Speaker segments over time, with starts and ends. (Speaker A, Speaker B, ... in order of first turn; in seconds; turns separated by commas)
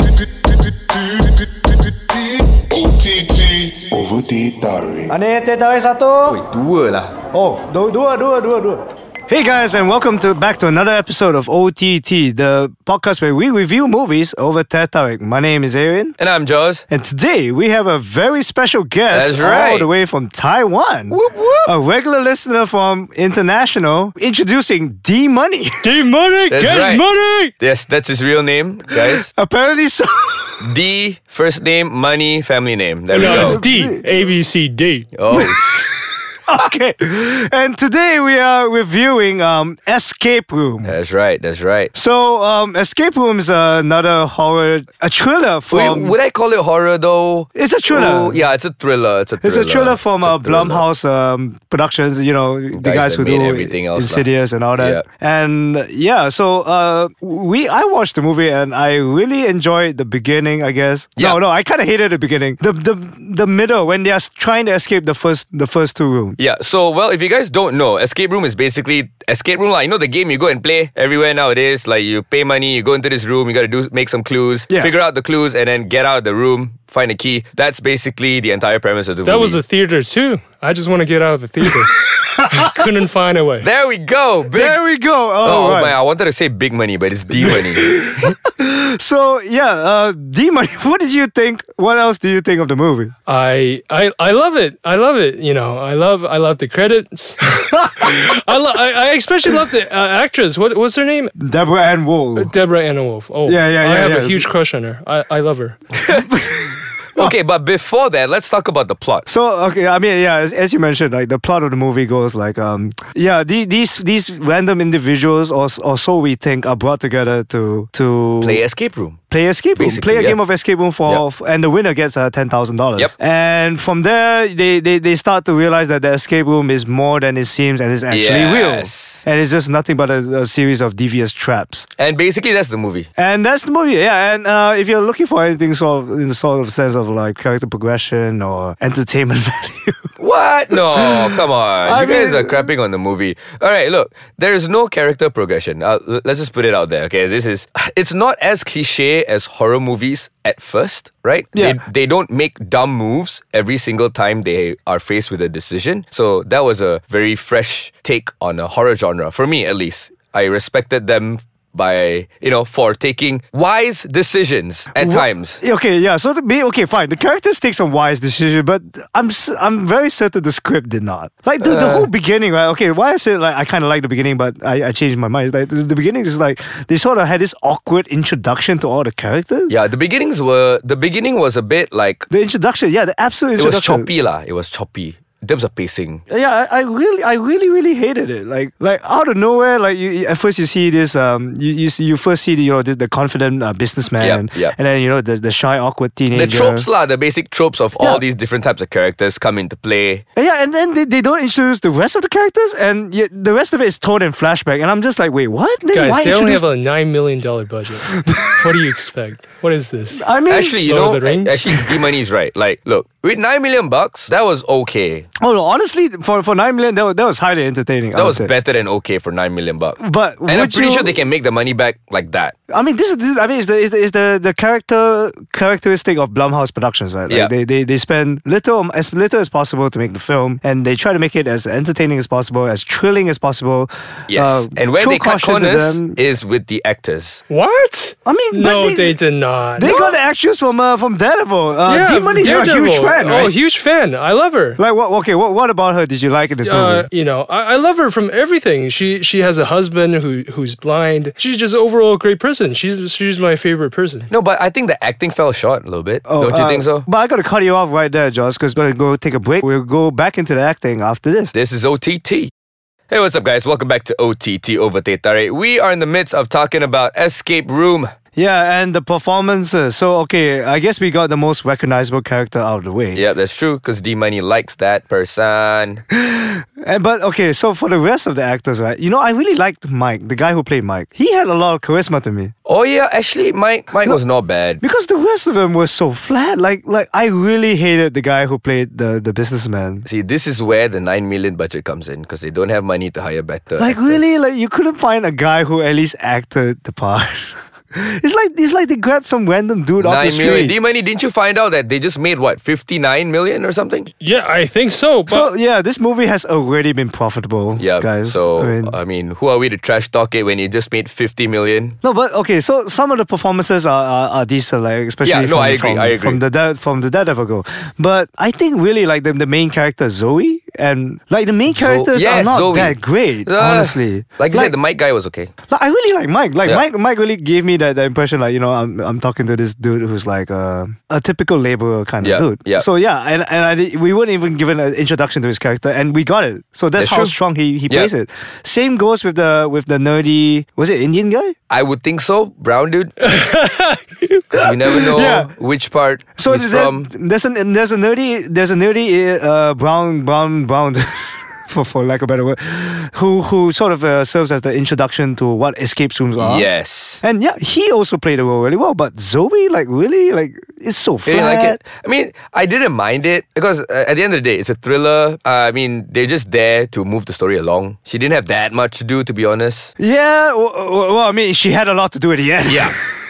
Speaker A: 2.7-5.1, Speaker B: 5.1-6.4, Speaker C: 6.2-7.2, Speaker B: 7.3-16.1, Speaker C: 16.2-16.8, Speaker B: 16.9-25.9, Speaker C: 19.1-19.9, Speaker C: 21.1-21.7, Speaker D: 25.8-27.5, Speaker C: 26.5-27.0, Speaker C: 27.6-29.3, Speaker B: 29.3-30.6, Speaker C: 30.6-33.6, Speaker D: 33.1-35.1, Speaker B: 33.1-34.0, Speaker C: 35.1-35.9, Speaker B: 35.3-40.9, Speaker C: 40.8-41.9, Speaker B: 41.9-46.1, Speaker C: 45.7-50.9, Speaker B: 47.5-48.4, Speaker B: 49.4-66.4, Speaker C: 52.7-55.0, Speaker C: 66.4-79.6, Speaker D: 79.2-83.7, Speaker B: 82.4-82.7, Speaker C: 83.6-84.8, Speaker B: 84.5-86.0, Speaker C: 85.4-88.2, Speaker B: 87.4-93.1, Speaker D: 93.3-101.3, Speaker B: 101.4-102.5, Speaker D: 102.3-105.8, Speaker B: 103.4-104.5, Speaker B: 106.1-107.3, Speaker C: 107.2-109.3, Speaker B: 109.3-118.6, Speaker C: 118.4-119.2, Speaker B: 119.3-131.8, Speaker C: 119.8-120.4, Speaker C: 128.1-129.2, Speaker C: 132.0-133.1, Speaker B: 133.2-140.1, Speaker C: 140.2-165.6, Speaker B: 140.7-142.7, Speaker B: 151.5-151.8, Speaker B: 164.9-179.7, Speaker C: 171.6-172.1, Speaker C: 179.7-182.3, Speaker B: 182.3-184.1, Speaker C: 183.6-186.2, Speaker B: 186.3-196.9, Speaker C: 194.2-194.7, Speaker C: 196.3-200.2, Speaker B: 198.0-198.2, Speaker B: 200.3-206.6, Speaker D: 205.9-210.2, Speaker B: 208.3-208.5, Speaker B: 210.1-210.8, Speaker C: 210.5-215.3, Speaker D: 210.8-211.8, Speaker B: 215.4-218.5, Speaker C: 218.1-222.5, Speaker B: 220.0-221.1, Speaker B: 222.7-236.2, Speaker C: 234.3-237.4, Speaker D: 237.5-240.1, Speaker B: 238.2-239.2, Speaker B: 239.8-243.5, Speaker D: 241.8-244.8, Speaker B: 244.8-247.1, Speaker D: 246.6-254.3, Speaker C: 254.3-257.1, Speaker B: 256.3-261.5, Speaker C: 261.5-262.5, Speaker C: 263.1-268.1, Speaker B: 268.4-273.2, Speaker C: 273.1-276.0, Speaker B: 276.1-282.5, Speaker C: 282.6-284.8, Speaker B: 284.8-290.1, Speaker C: 290.0-294.2, Speaker B: 293.8-300.8, Speaker C: 300.0-304.1, Speaker D: 304.2-305.5, Speaker B: 305.3-308.9, Speaker C: 307.8-312.0, Speaker B: 312.0-324.7, Speaker C: 315.2-316.4, Speaker C: 321.7-325.5, Speaker B: 325.7-341.5, Speaker C: 332.2-332.9, Speaker C: 336.9-337.4, Speaker C: 341.7-343.2, Speaker D: 343.3-344.4, Speaker C: 344.5-347.1, Speaker B: 344.9-345.5, Speaker B: 346.4-356.7, Speaker C: 356.4-357.2, Speaker B: 357.2-361.8, Speaker C: 361.2-369.9, Speaker B: 370.0-373.1, Speaker C: 372.6-372.9